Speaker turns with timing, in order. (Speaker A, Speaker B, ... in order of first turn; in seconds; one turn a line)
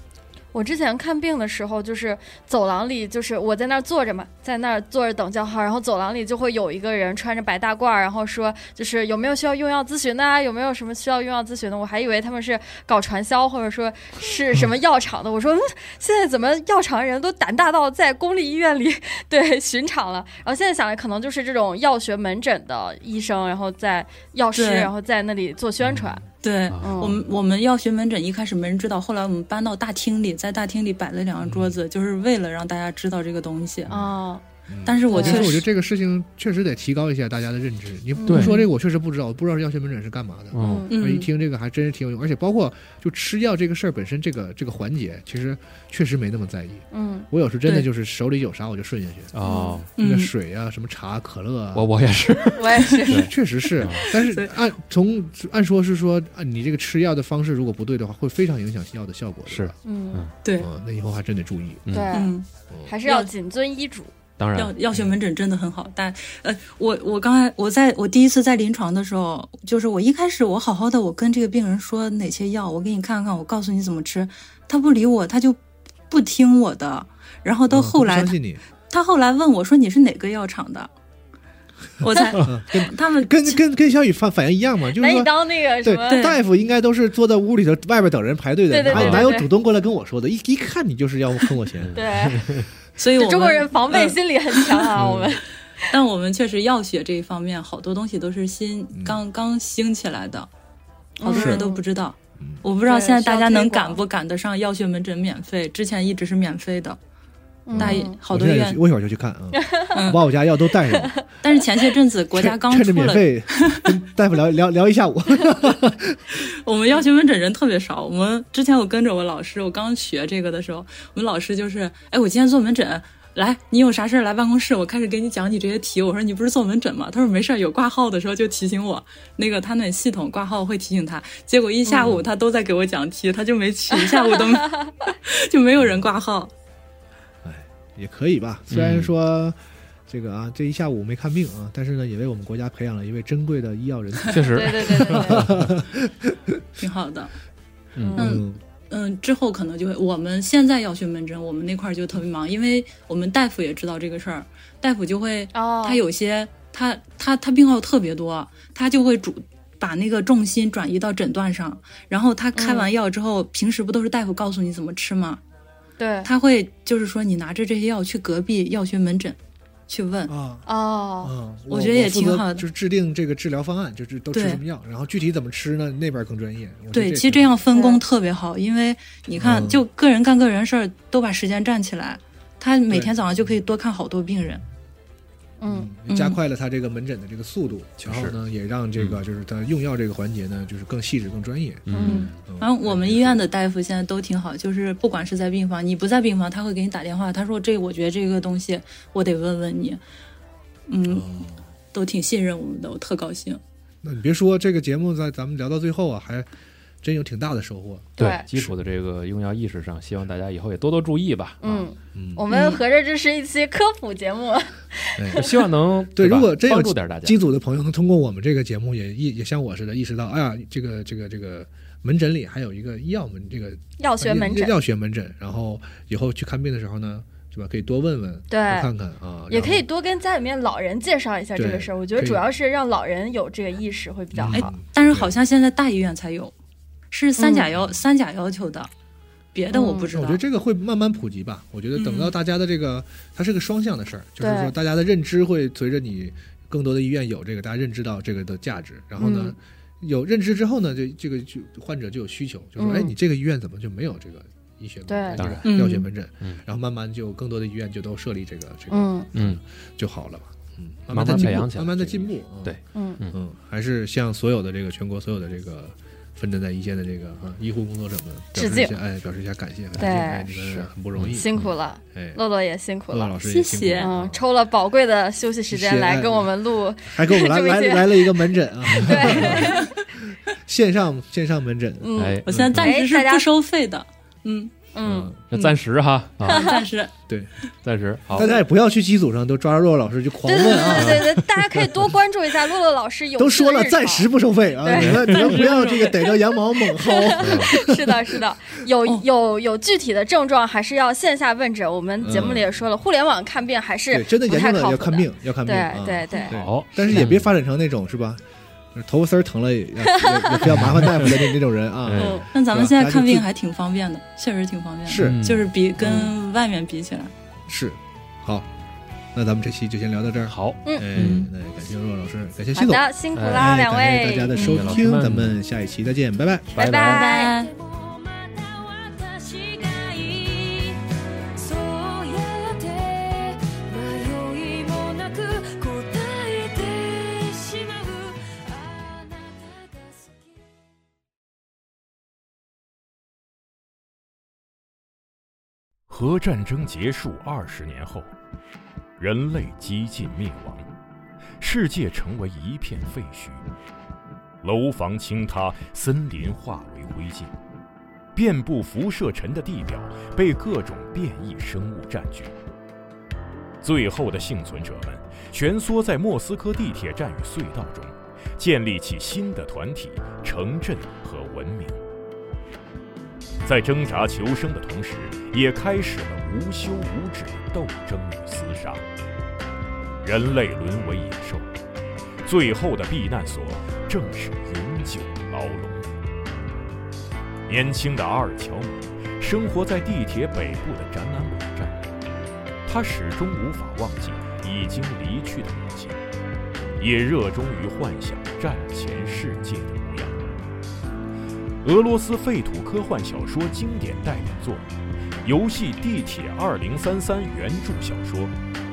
Speaker A: 0.5-26.2
Speaker B: 24.5-24.9
Speaker C: 25.8-26.2
Speaker B: 26.4-33.9
Speaker D: 26.7-27.0
Speaker A: 26.8-27.2
Speaker C: 31.4-31.8
Speaker A: 33.9-34.4
Speaker C: 34.7-49.3
Speaker B: 34.8-35.6
Speaker A: 35.0-35.6
Speaker A: 38.1-38.5
Speaker D: 38.3-38.6
Speaker B: 38.4-38.7
Speaker D: 40.5-40.9
Speaker A: 40.6-40.9
Speaker B: 40.9-41.3
Speaker A: 46.9-47.3
Speaker D: 49.3-49.9
Speaker A: 49.4-49.8
Speaker B: 50.0-50.3
Speaker C: 50.0-52.4
Speaker D: 51.7-54.1
Speaker A: 52.6-53.3
Speaker C: 53.1-59.8
Speaker B: 54.2-54.5
Speaker D: 59.5-60.3
Speaker A: 59.8-60.2
Speaker B: 60.4-60.7
Speaker C: 60.6-62.1
Speaker D: 61.9-62.2
Speaker A: 61.9-62.3
Speaker B: 62.1-62.5
Speaker C: 62.7-62.9
Speaker A: 62.9-64.1
Speaker D: 64.4-64.7
Speaker B: 64.5-78.4
Speaker C: 77.7-78.6
Speaker B: 78.9-80.9
Speaker B: 82.0-83.6
Speaker C: 82.3-92.3
Speaker A: 84.9-86.2
Speaker B: 86.1-86.4
Speaker A: 88.7-89.5
Speaker D: 88.9-89.3
Speaker D: 91.8-92.7
Speaker A: 91.9-92.6
Speaker B: 93.0-95.0
Speaker A: 93.2-95.9
Speaker C: 95.0-95.3
Speaker B: 95.9-100.5
Speaker C: 98.9-99.2
Speaker A: 101.2-101.8
Speaker B: 101.2-107.0
Speaker C: 101.3-101.7
Speaker C: 102.4-102.6
Speaker A: 102.8-104.0
Speaker A: 107.7-108.2
Speaker C: 107.7-111.3
Speaker B: 107.7-108.8
Speaker A: 109.6-109.9
Speaker B: 109.9-110.2
Speaker B: 111.4-113.9
Speaker C: 112.3-116.3
Speaker B: 116.4-136.5
Speaker C: 132.0-132.2
Speaker D: 132.0-132.2
Speaker C: 135.8-136.1
Speaker C: 137.4-146.6
Speaker D: 138.7-139.1
Speaker D: 144.3-145.6
Speaker A: 144.5-145.5
Speaker B: 146.8-147.3
Speaker D: 147.9-148.3
Speaker A: 148.0-148.3
Speaker C: 148.2-148.6
Speaker B: 148.2-165.4
Speaker A: 155.5-156.0
Speaker A: 162.5-162.9
Speaker A: 166.0-166.3
Speaker B: 166.2-169.4
Speaker B: 169.9-170.3
Speaker C: 170.3-170.7
Speaker A: 170.7-171.3
Speaker C: 171.2-177.5
Speaker B: 171.7-172.7
Speaker B: 174.3-174.6
Speaker B: 176.9-184.6
Speaker A: 177.7-178.0
Speaker C: 179.4-179.8
Speaker A: 185.6-185.9
Speaker C: 185.7-193.5
Speaker B: 186.1-186.4
Speaker D: 188.0-188.4
Speaker D: 191.9-192.4
Speaker A: 191.9-192.3
Speaker B: 192.0-200.0
Speaker B: 200.9-203.6
Speaker C: 201.1-201.6
Speaker C: 204.0-206.5
Speaker C: 207.0-208.7
Speaker A: 208.2-208.4
Speaker D: 208.2-211.9
Speaker A: 211.6-215.5
Speaker C: 212.1-212.4
Speaker B: 212.5-212.8
Speaker C: 215.2-215.4
Speaker D: 215.4-217.4
Speaker C: 216.1-229.8
Speaker A: 224.0-224.8
Speaker A: 228.5-228.9
Speaker A: 229.5-234.7
Speaker C: 231.6-232.4
Speaker C: 234.3-235.3
Speaker B: 234.5-236.5
Speaker B: 237.1-238.9
Speaker A: 237.4-237.7
Speaker C: 237.7-238.0
Speaker B: 239.5-240.4
Speaker A: 239.7-240.1
Speaker C: 240.1-262.8
Speaker B: 241.9-242.3
Speaker A: 244.4-244.7
Speaker A: 249.2-249.5
Speaker A: 252.8-253.1
Speaker A: 255.1-255.5
Speaker D: 255.4-255.7
Speaker B: 255.7-256.1
Speaker A: 258.9-259.3
Speaker D: 259.3-259.6
Speaker D: 261.1-263.4
Speaker C: 263.3-271.5
Speaker A: 268.5-268.9
Speaker A: 270.0-270.6
Speaker D: 270.7-271.7
Speaker A: 271.3-273.4
Speaker C: 272.1-272.4
Speaker C: 273.1-274.4
Speaker B: 273.4-274.1
Speaker A: 274.0-279.9
Speaker C: 275.7-282.9
Speaker D: 279.4-279.6
Speaker B: 279.6-279.9
Speaker A: 282.0-283.5
Speaker D: 282.2-282.9
Speaker B: 282.7-284.8
Speaker A: 284.9-285.3
Speaker C: 285.0-285.3
Speaker D: 285.0-286.7
Speaker B: 286.4-287.1
Speaker A: 286.5-286.8
Speaker D: 287.8-288.5
Speaker C: 288.3-292.1
Speaker A: 290.4-306.5
Speaker C: 293.4-298.0
Speaker D: 294.9-295.5
Speaker B: 295.2-296.3
Speaker D: 297.4-297.7
Speaker C: 302.2-302.7
Speaker C: 304.1-308.4
Speaker D: 306.5-307.5
Speaker C: 308.9-313.5
Speaker A: 310.1-310.6
Speaker D: 310.6-311.3
Speaker D: 312.0-312.4
Speaker A: 312.2-312.4
Speaker B: 312.5-317.3
Speaker C: 315.1-315.4
Speaker D: 315.2-316.2
Speaker C: 316.0-316.3
Speaker C: 317.7-318.7
Speaker C: 319.3-326.8
Speaker D: 320.5-321.5
Speaker B: 321.2-321.5
Speaker A: 322.7-324.6
Speaker D: 323.3-323.7
Speaker D: 324.5-325.6
Speaker B: 324.5-325.0
Speaker D: 326.7-327.2
Speaker A: 326.7-327.6
Speaker B: 327.0-327.7
Speaker E: 327.6-340.6
Speaker F: 346.1-348.3
Speaker F: 349.2-350.9
Speaker F: 351.6-353.6
Speaker F: 354.6-357.5
Speaker F: 358.3-362.5
Speaker F: 363.8-372.0
Speaker F: 373.6-379.1
Speaker F: 380.2-381.7
Speaker F: 382.4-386.1
Speaker F: 387.7-392.0
Speaker F: 392.9-396.2
Speaker F: 397.0-400.6
Speaker F: 401.8-404.9
Speaker F: 405.4-408.5